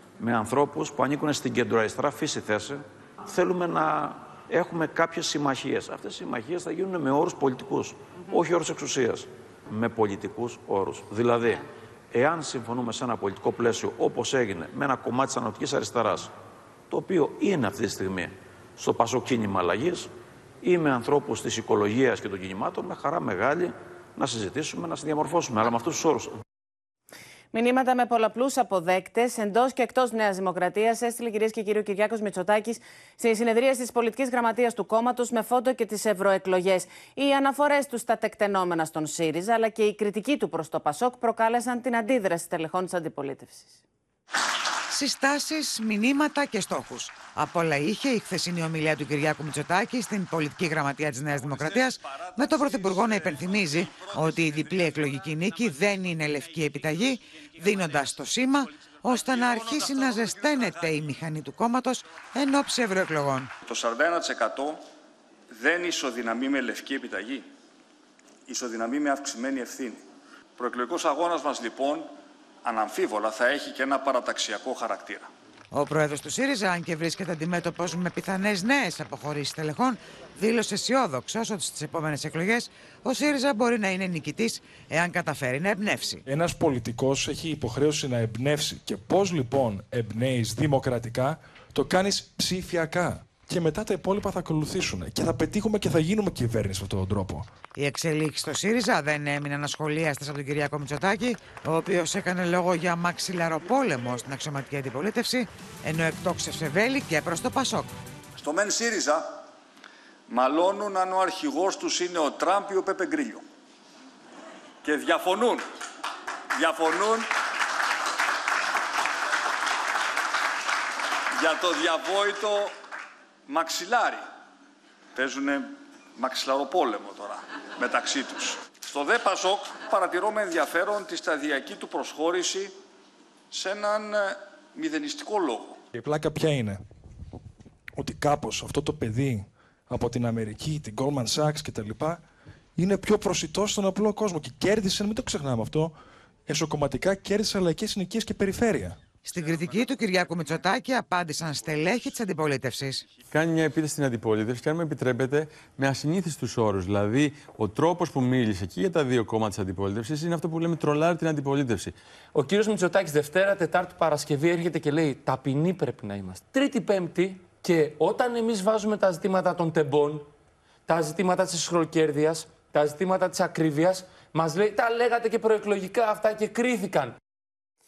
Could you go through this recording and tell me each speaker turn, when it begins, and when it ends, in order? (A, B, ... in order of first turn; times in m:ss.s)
0:00.2-0:16.3 A
0:16.9-0:20.1 A
0:20.6-0:26.3 A
0:27.5-0:43.8 B
0:44.9-1:03.5 C
1:03.7-1:04.8 D
1:05.5-1:07.5 D
1:08.5-1:10.0 D
1:10.6-1:12.1 D
1:12.6-1:15.3 D
1:15.7-1:26.2 C
1:26.3-1:37.5 E
1:37.8-1:47.9 C
1:48.4-1:49.4 D
1:50.3-1:53.4 D
1:54.8-1:55.7 D
1:56.6-1:57.3 D
2:01.4-2:02.7 D
2:03.5-2:04.2 D
2:05.2-2:12.8 D
2:13.5-2:15.8 D
2:16.0-2:16.8 E
2:18.0-2:22.2 E
2:22.8-2:25.9 E
2:26.5-2:29.0 E
2:29.2-2:33.0 C
2:33.3-2:41.9 F
2:42.6-2:45.7 G
2:46.6-2:47.0 G
2:47.8-2:50.2 G
2:51.0-2:57.0 G